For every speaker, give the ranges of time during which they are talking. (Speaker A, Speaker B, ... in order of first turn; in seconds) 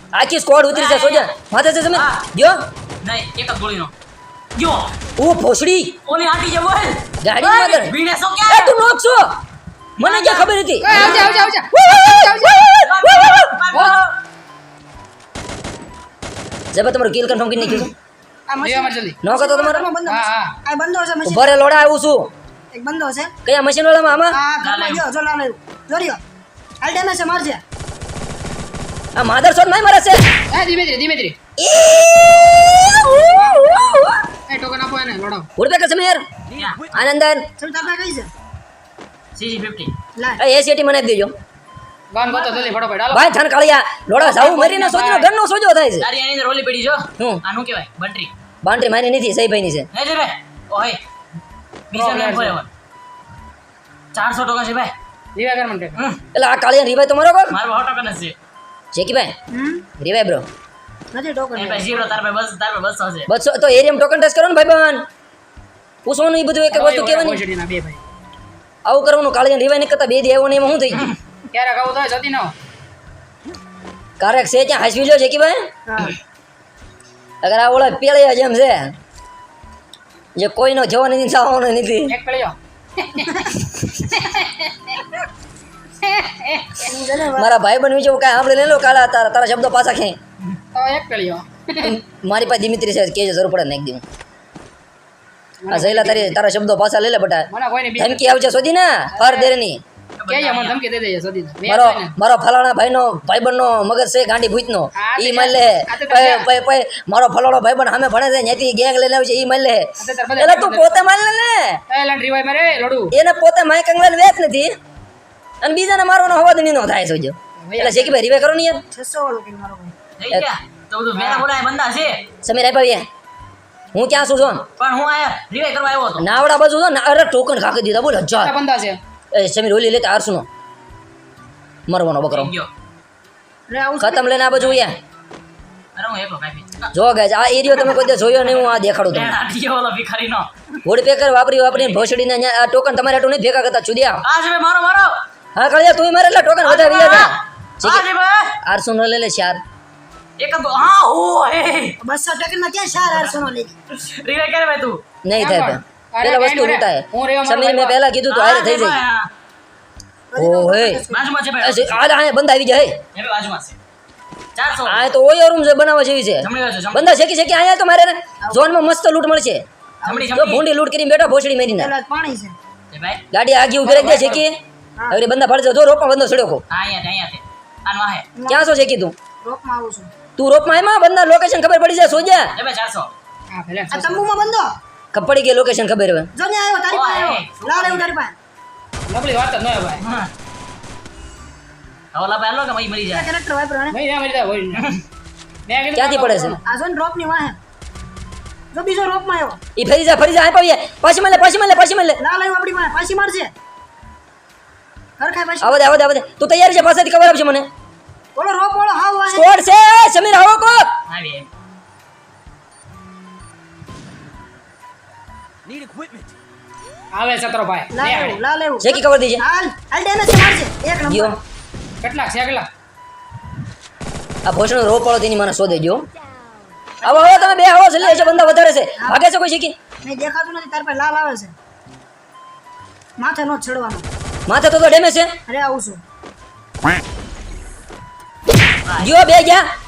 Speaker A: 0.1-2.6, 5.2-6.0, 7.2-8.0, 8.5-9.4, 10.0-13.5, 16.7-17.9, 19.2-19.9, 21.2-22.3, 23.5-24.4, 29.1-30.3, 31.6-34.3, 35.6-36.2, 36.9-37.5, 40.4-41.4, 43.1-46.1, 48.6-49.9, 56.3-57.6, 58.9-59.3, 60.0-60.5, 63.3-65.1, 66.1-67.4, 68.9-71.1, 74.2-75.7, 77.4-78.9, 80.4-82.1, 87.3-90.2, 91.8-94.0, 95.7-99.8, 101.7-111.8, 113.1-114.8, 115.6-118.8, 122.4-123.1, 123.9-124.7, 126.2-128.6, 129.3-130.5, 131.9-132.5, 134.0-135.0, 136.9-139.4, 140.8-144.2, 145.6-148.1, 148.6-149.6, 155.2-159.0, 160.4-161.1, 161.6-163.0, 164.8-169.7, 170.3-171.9, 173.3-176.6, 178.5-179.2, 180.4-182.5, 185.1-186.3, 195.9-196.6, 199.8-202.2, 205.6-207.7, 209.3-210.9, 218.8-219.4, 221.1-221.4, 224.5-226.1, 227.0-229.8, 234.5-235.3, 239.0-239.7
Speaker B: 0.7-1.3, 1.9-2.2, 3.0-3.9, 4.6-4.9, 6.1-8.8, 10.0-11.2, 12.8-14.2, 24.6-25.1, 36.5-36.9, 39.4-39.9, 46.0-48.3, 49.9-51.0, 51.9-52.7, 54.1-54.9, 56.0-56.2, 57.5-58.3, 61.5-63.3, 100.2-100.8, 120.2-122.3, 124.8-126.3, 132.3-132.7, 134.6-134.9, 136.0-136.9, 138.4-140.5, 141.7-142.1, 144.2-145.2, 146.6-148.6, 150.4-152.0, 153.0-155.0, 158.3-159.3, 161.1-162.0, 163.2-163.8, 164.6-165.1, 166.4-167.1, 170.0-170.7, 172.9-173.2, 176.7-178.3, 182.6-183.2, 186.9-188.1, 190.0-190.3, 192.1-193.3, 194.8-195.0, 211.1-211.5, 238.9-239.1
Speaker C: 10.8-12.7, 13.7-14.0, 18.6-19.2, 20.1-20.6, 30.5-31.4, 34.5-35.5, 42.1-43.3, 44.2-45.3, 51.9-52.6, 55.4-56.0, 66.7-68.0, 71.5-72.5, 82.1-83.5, 84.1-85.0, 86.0-86.9, 90.7-92.0, 95.6-96.4, 97.5-98.6, 99.2-99.5, 100.3-102.1, 105.0-106.5, 110.0-111.1, 111.9-113.2, 117.7-118.2, 121.2-121.4, 128.4-129.0, 155.4-158.0, 183.5-184.3, 189.1-190.0, 193.9-194.9, 195.7-196.6, 217.2-218.4, 222.0-222.7
Speaker D: 18.5-21.6, 22.7-23.3, 24.3-26.2, 26.8-27.6, 37.6-38.3, 42.3-42.7, 59.5-59.9, 61.1-62.0, 75.9-76.2, 83.2-83.5, 86.8-87.5, 118.9-120.0, 133.7-134.3, 152.0-153.7, 160.3-161.3, 168.4-168.7, 170.0-170.4, 171.8-172.6, 173.9-174.4, 178.4-178.7, 179.4-180.1, 183.9-184.7, 186.3-188.3, 193.1-194.0, 196.6-197.6, 198.7-199.6, 202.2-203.5, 205.2-205.8, 208.4-209.6, 217.9-221.4, 227.0-229.2, 230.0-231.6, 233.2-234.1, 235.5-236.0